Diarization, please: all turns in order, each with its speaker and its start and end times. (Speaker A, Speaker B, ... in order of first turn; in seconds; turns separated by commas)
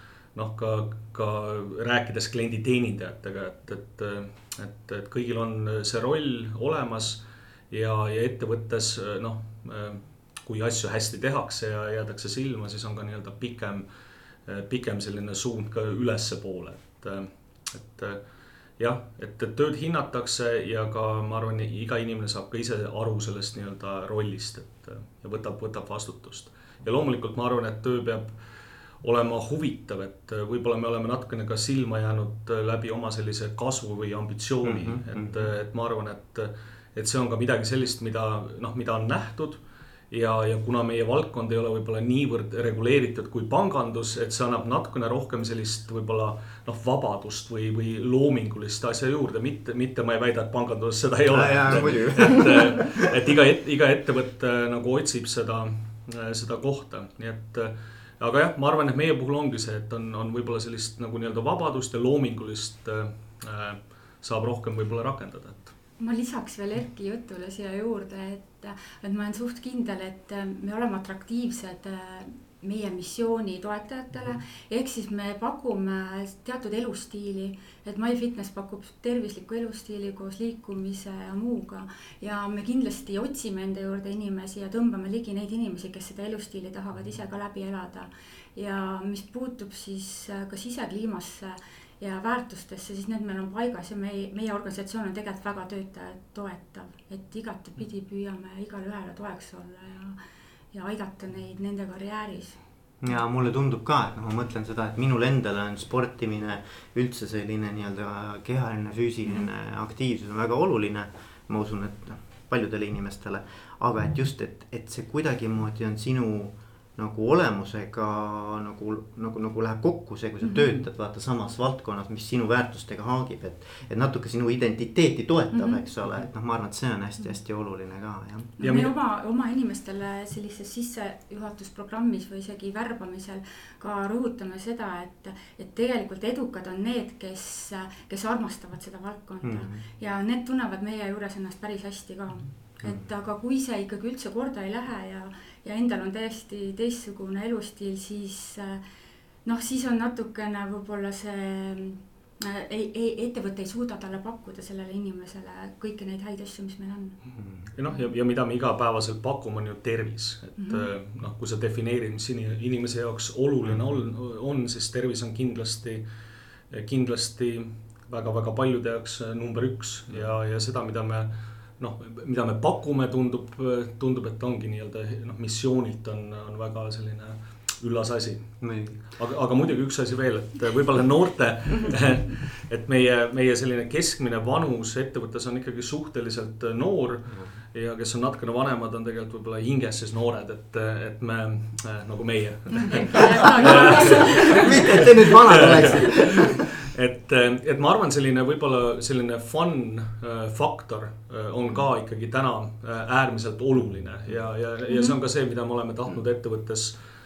Speaker A: 0.3-13.8, Speaker A: 14.4-18.2, Speaker A: 18.8-28.4, Speaker A: 29.0-39.6, Speaker B: 34.6-35.5, Speaker A: 40.1-65.7, Speaker B: 51.3-53.0, Speaker C: 66.0-100.2, Speaker C: 100.7-102.6, Speaker B: 103.0-128.6, Speaker C: 120.4-120.8, Speaker C: 125.5-125.8, Speaker C: 128.6-148.8, Speaker A: 128.6-128.9, Speaker B: 139.4-139.8, Speaker B: 142.8-143.1, Speaker C: 149.4-157.2, Speaker B: 157.4-157.7, Speaker A: 157.7-166.0, Speaker C: 160.6-160.9, Speaker B: 163.7-163.9, Speaker A: 166.7-207.0, Speaker B: 178.6-179.0, Speaker C: 192.7-196.1, Speaker B: 193.6-196.5, Speaker C: 204.9-205.1